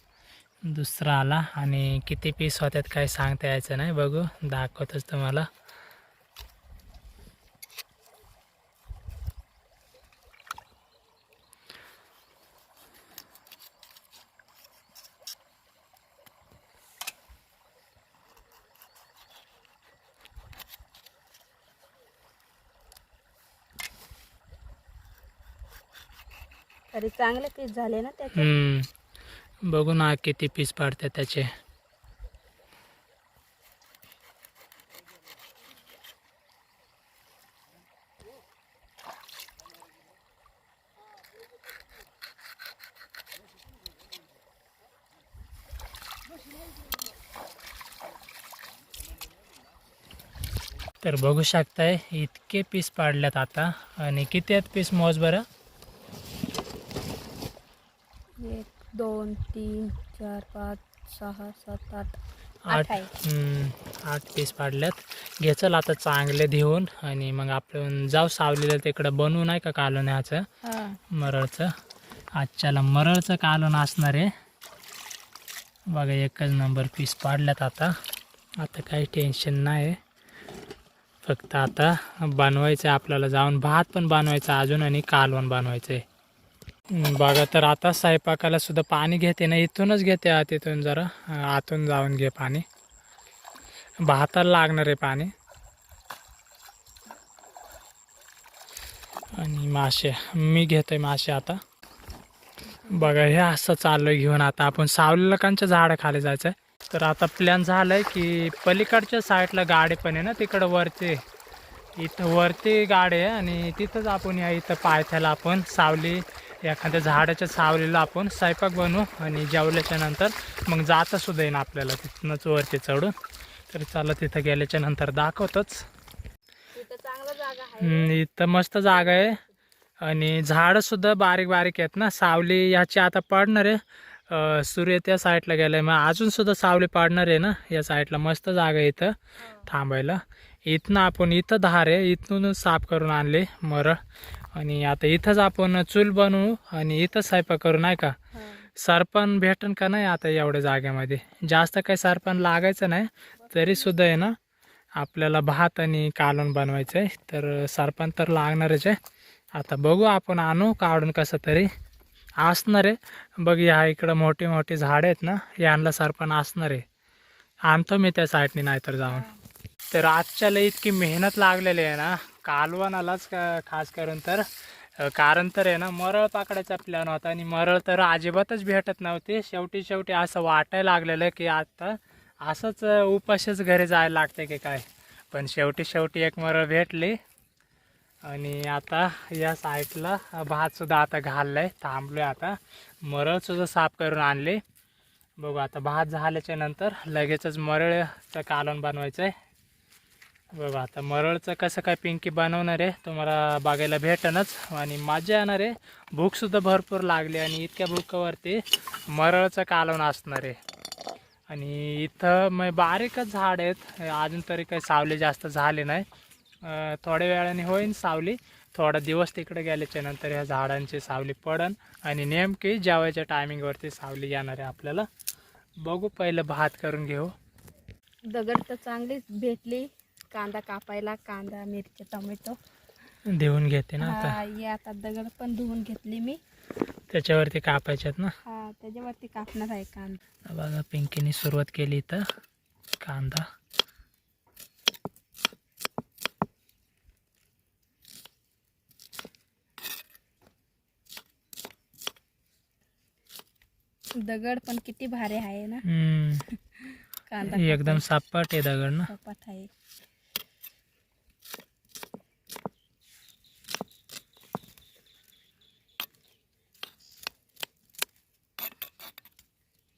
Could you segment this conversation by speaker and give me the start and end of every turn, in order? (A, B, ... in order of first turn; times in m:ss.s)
0:00.6-0:05.5 A
0:26.9-0:28.5 B
0:28.3-0:28.9 A
0:29.7-0:31.5 A
0:51.0-0:55.4 A
0:58.4-1:02.2 B
1:02.7-1:10.5 A
1:02.7-1:03.1 B
1:10.6-1:11.0 B
1:11.1-1:11.7 A
1:12.4-1:14.3 A
1:15.9-1:17.9 A
1:18.6-1:20.0 A
1:21.2-1:26.0 A
1:26.9-1:32.6 A
1:34.0-1:35.3 A
1:39.4-1:41.6 A
1:42.6-1:43.1 B
1:42.9-1:51.2 A
1:52.0-2:03.1 A
2:03.7-2:05.8 A
2:06.8-2:08.1 B
2:07.8-2:09.4 A
2:08.9-2:09.5 B
2:10.0-2:24.0 A
2:19.4-2:19.7 B
2:24.5-2:28.2 A
2:28.3-2:28.7 B
2:28.8-2:34.4 A
2:33.4-2:34.1 B
2:35.0-2:39.0 A
2:39.6-2:41.7 A
2:42.4-2:46.8 A
2:47.7-2:49.2 A
2:49.1-2:49.4 B
2:49.9-3:07.2 A
3:08.3-3:14.6 A
3:15.4-3:19.3 A
3:20.6-3:30.6 A
3:31.5-3:36.1 A
3:36.6-3:45.1 A
3:45.8-3:47.3 A
3:48.3-3:52.6 B
3:53.3-3:54.4 A
3:54.0-3:56.4 B
3:57.1-3:58.3 A
3:58.4-4:00.2 B
4:00.5-4:02.2 A
4:03.0-4:03.5 A
4:14.2-4:15.8 B
4:15.8-4:16.4 A
4:16.5-4:18.0 B
4:17.4-4:19.1 A
4:19.1-4:19.7 B